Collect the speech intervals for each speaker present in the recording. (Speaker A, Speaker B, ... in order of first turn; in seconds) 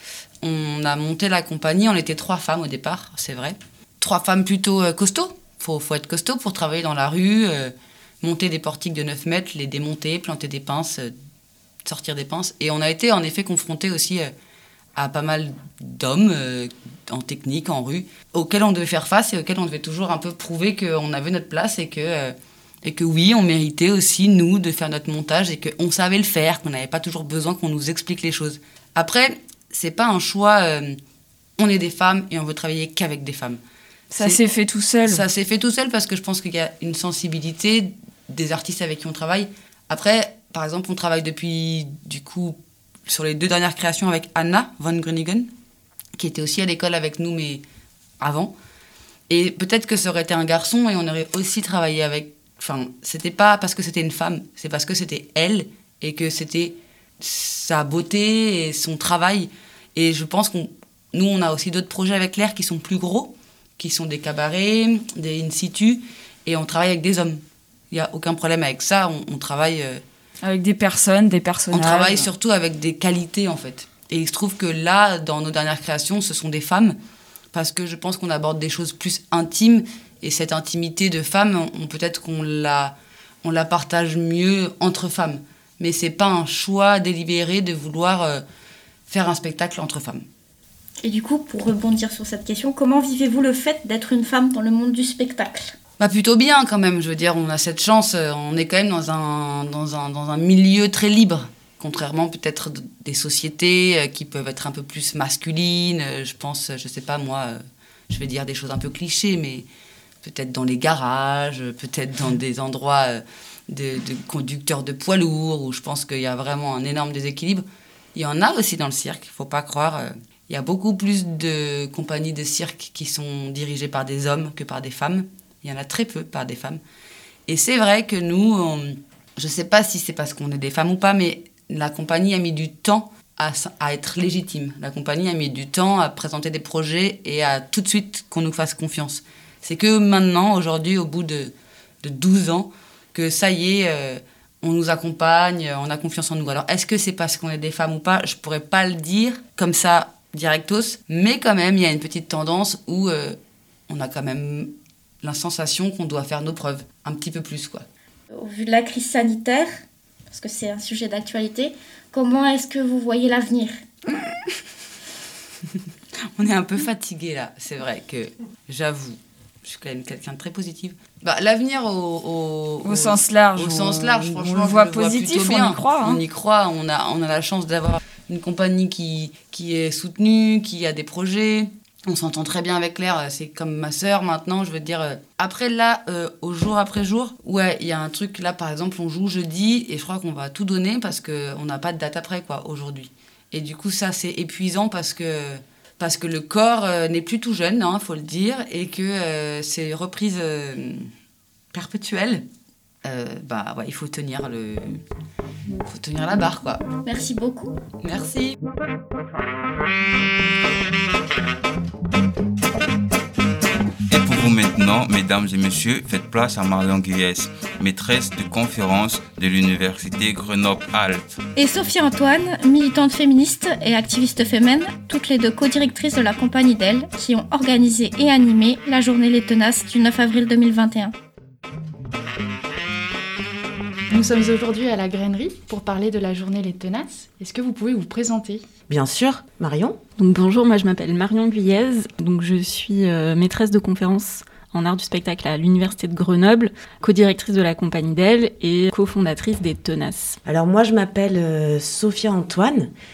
Speaker A: 0.4-11.1, 11.8-14.3, 14.9-31.0, 31.6-33.6, 35.0-42.5, 43.1-45.5, 46.2-47.6, 48.2-48.5, 49.3-70.0, 71.7-77.0, 77.5-88.4, 89.1-90.2, 96.0-109.7, 110.2-126.8, 127.5-153.4, 153.9-157.8, 166.3-201.1, 201.7-202.4, 203.0-205.0, 205.8-206.9, 208.0-208.5
Speaker B: 34.1-35.2, 70.4-72.3, 172.8-176.2
Speaker C: 91.0-95.8, 158.3-159.7, 160.3-163.8, 207.0-207.8, 221.5-231.1
Speaker D: 214.1-221.4
Speaker E: 234.1-238.7
Speaker F: 238.9-240.0, 250.4-252.9
Speaker G: 240.2-250.4